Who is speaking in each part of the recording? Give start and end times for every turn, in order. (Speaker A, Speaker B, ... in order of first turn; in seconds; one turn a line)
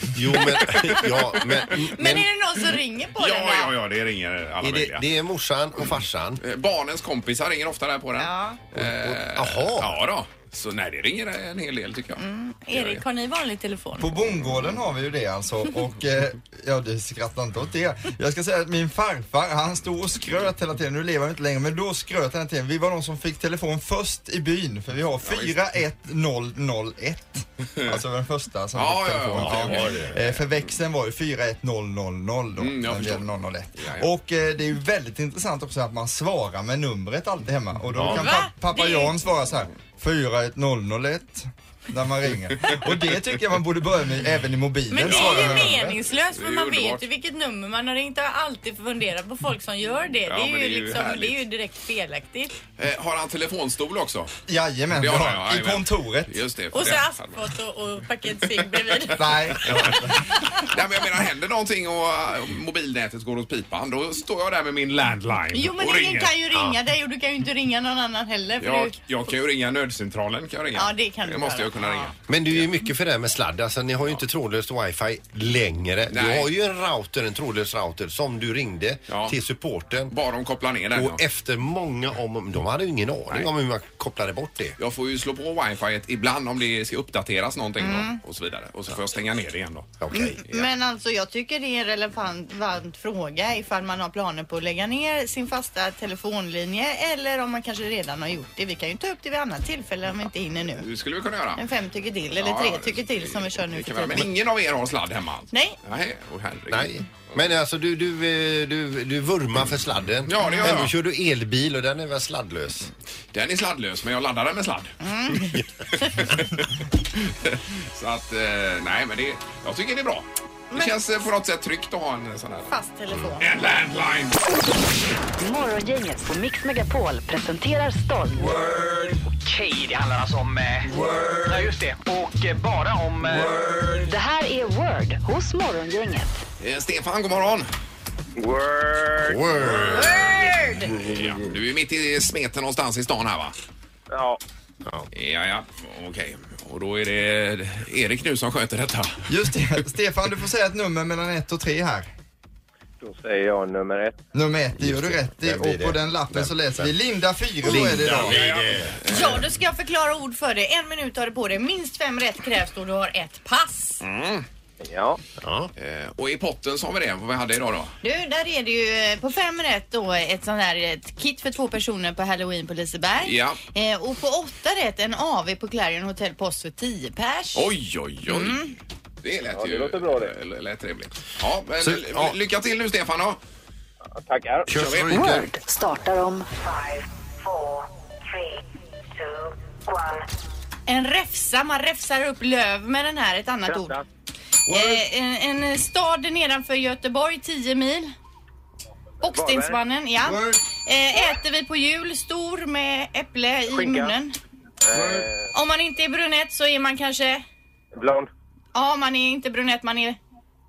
Speaker A: 0.1-2.3
Speaker B: 0.5-1.7
Speaker C: 1.7-3.7
Speaker B: 3.2-5.0
Speaker A: 4.6-6.4
Speaker B: 6.4-13.0
Speaker C: 8.2-8.6
Speaker A: 8.8-10.0
Speaker C: 12.2-14.1
Speaker D: 14.0-45.9
Speaker B: 25.2-25.6
Speaker B: 28.8-30.4
Speaker A: 29.4-30.2
Speaker B: 32.6-34.1
Speaker A: 38.0-38.3
Speaker C: 38.1-39.1
Speaker C: 44.9-52.6
Speaker B: 45.1-47.0
Speaker B: 50.3-51.4
Speaker B: 52.8-54.3
Speaker D: 54.5-56.4
Speaker B: 54.9-57.4
Speaker C: 56.7-60.6
Speaker D: 59.2-60.5
Speaker B: 59.6-60.0
Speaker B: 60.7-66.3
Speaker C: 65.5-69.0
Speaker B: 68.6-72.7
Speaker C: 70.8-72.1
Speaker A: 72.3-80.1
Speaker B: 76.1-76.5
Speaker B: 79.1-79.4
Speaker B: 80.1-81.2
Speaker A: 80.9-84.8
Speaker B: 84.8-89.9
Speaker C: 87.8-88.2
Speaker A: 90.0-90.4
Speaker C: 90.1-100.9
Speaker B: 100.8-101.6
Speaker C: 101.6-104.3
Speaker B: 102.4-107.5
Speaker C: 105.5-105.8
Speaker A: 106.7-112.9
Speaker B: 110.2-110.9
Speaker C: 110.4-110.8
Speaker B: 113.3-122.7
Speaker C: 115.0-116.2
Speaker C: 120.7-121.0
Speaker C: 122.7-123.5
Speaker B: 123.4-124.4
Speaker E: 125.4-128.5
Speaker F: 129.2-130.9
Speaker F: 131.5-133.5
Speaker E: 134.0-136.4
Speaker B: 136.6-137.7
Speaker G: 138.4-139.4
Speaker A: 139.2-141.5
Speaker B: 139.6-143.6
Speaker C: 139.9-140.9
Speaker G: 144.1-144.4
Speaker B: 145.1-149.3
Speaker D: 149.3-152.1
Speaker G: 153.0-154.1
Speaker D: 154.3-158.4
Speaker A: 154.8-156.9
Speaker A: 157.6-159.2
Speaker B: 158.1-159.4
Speaker C: 159.1-164.0
Speaker B: 164.0-164.5
Speaker G: 164.8-165.2
Speaker A: 165.4-165.7
Speaker B: 165.8-167.9
Speaker C: 168.0-177.7
Speaker B: 173.2-173.6
Speaker B: 177.6-178.7
Speaker C: 178.3-178.8
Speaker B: 179.2-183.4
Speaker G: 179.6-180.3
Speaker A: 181.8-182.4
Speaker G: 184.2-184.7
Speaker A: 184.7-185.5
Speaker B: 184.7-185.4
Speaker E: 185.0-187.8
Speaker E: 189.3-190.2
Speaker C: 190.9-194.0
Speaker G: 193.7-194.0
Speaker C: 194.7-198.1
Speaker D: 194.7-195.0
Speaker C: 199.2-204.4
Speaker G: 199.3-199.8
Speaker D: 200.2-200.6
Speaker G: 203.8-204.1
Speaker G: 204.9-205.2
Speaker D: 204.9-205.3
Speaker C: 205.5-207.4
Speaker G: 208.0-208.3
Speaker C: 208.8-210.2